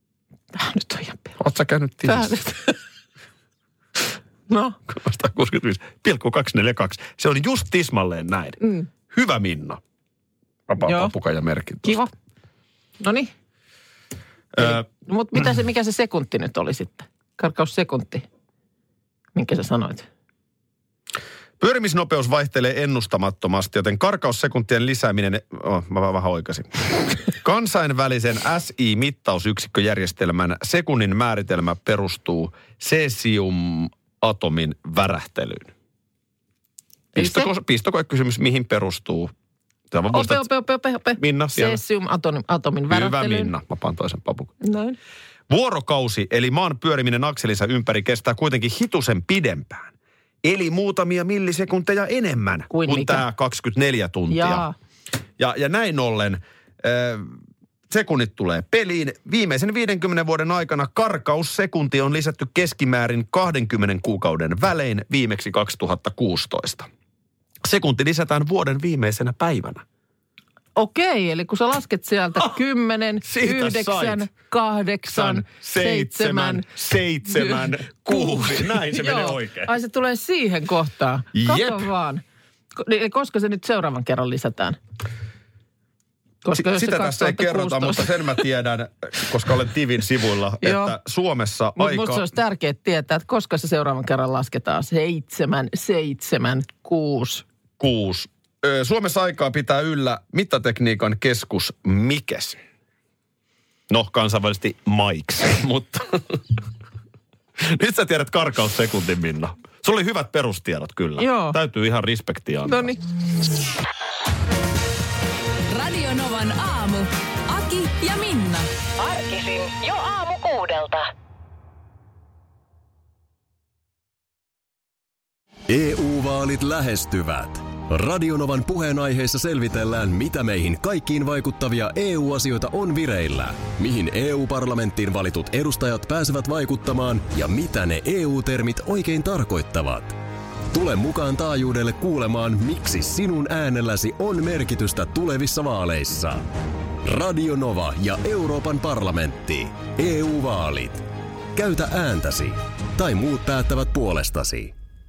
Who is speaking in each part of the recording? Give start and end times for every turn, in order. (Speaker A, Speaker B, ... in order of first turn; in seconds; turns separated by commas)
Speaker A: 0.5-1.4, Speaker B: 1.4-2.5, Speaker A: 2.0-2.8, Speaker A: 4.5-4.8, Speaker B: 4.9-9.8, Speaker B: 10.7-12.0, Speaker A: 10.9-11.1, Speaker A: 11.8-12.1, Speaker A: 13.0-13.3, Speaker B: 14.5-14.9, Speaker A: 14.6-18.2, Speaker A: 19.4-20.1, Speaker B: 21.6-35.7, Speaker A: 37.1-37.5, Speaker B: 37.1-39.3, Speaker B: 39.9-40.5, Speaker A: 40.1-43.5, Speaker B: 41.2-41.8, Speaker B: 42.9-44.5, Speaker A: 44.6-45.0, Speaker B: 45.5-54.6, Speaker A: 52.7-53.2, Speaker A: 54.3-54.7, Speaker B: 55.4-57.4, Speaker B: 57.9-66.9, Speaker B: 67.6-69.8, Speaker A: 70.8-76.7, Speaker B: 73.3-74.2, Speaker B: 75.1-79.7, Speaker A: 77.3-82.2, Speaker B: 81.3-81.9, Speaker A: 82.8-84.8, Speaker A: 86.4-88.3, Speaker B: 86.5-92.3, Speaker A: 90.6-91.0, Speaker A: 91.8-97.5, Speaker B: 97.8-102.6, Speaker B: 103.9-106.6, Speaker B: 107.6-113.0, Speaker A: 111.2-111.6, Speaker A: 112.7-113.0, Speaker C: 115.7-118.7, Speaker D: 119.0-121.1, Speaker E: 125.7-140.2, Speaker E: 140.7-146.5, Speaker E: 147.0-154.7